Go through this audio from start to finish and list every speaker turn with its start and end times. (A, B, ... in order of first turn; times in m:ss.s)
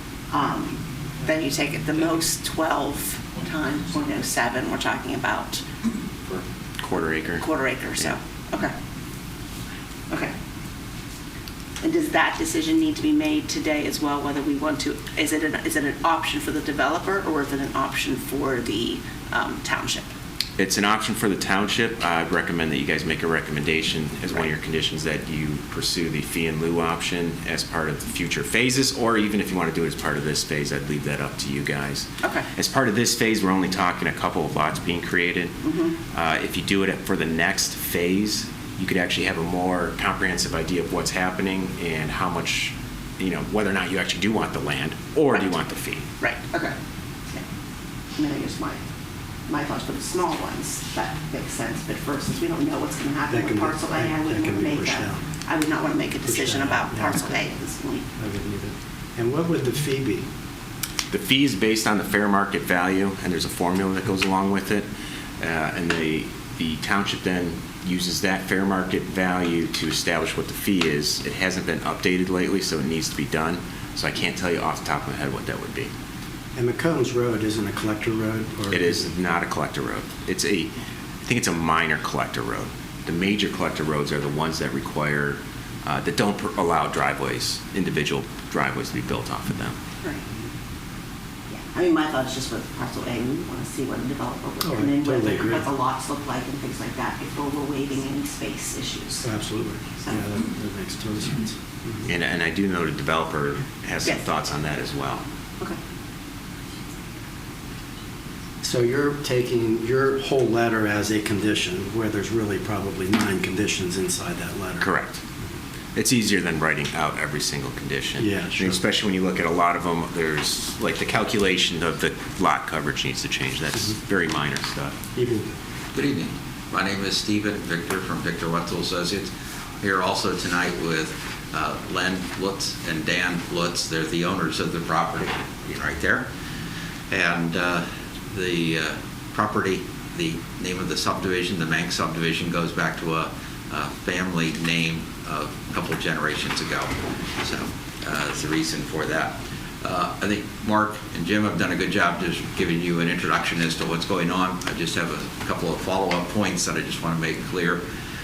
0:00.3-0:05.6 A
0:06.8-0:07.5 B
0:07.4-0:08.7 A
0:11.8-0:20.1 A
0:20.6-0:35.6 B
0:35.6-0:36.0 A
0:36.1-0:46.1 B
0:46.2-0:46.8 A
0:48.2-0:48.8 A
0:49.5-0:58.0 A
0:53.3-0:55.2 C
0:56.2-0:57.3 C
0:58.2-1:00.3 C
1:01.1-1:04.9 B
1:05.4-1:15.9 B
1:16.6-1:19.1 C
1:18.7-1:20.7 B
1:21.2-1:29.8 B
1:31.5-1:39.3 A
1:34.6-1:35.7 C
1:39.2-1:42.1 C
1:42.1-1:45.2 B
1:48.6-1:54.9 C
1:54.8-1:55.2 B
1:56.0-2:05.0 B
1:58.2-1:58.8 C
2:05.2-2:05.5 C
2:05.9-2:16.3 D
2:17.1-2:37.8 D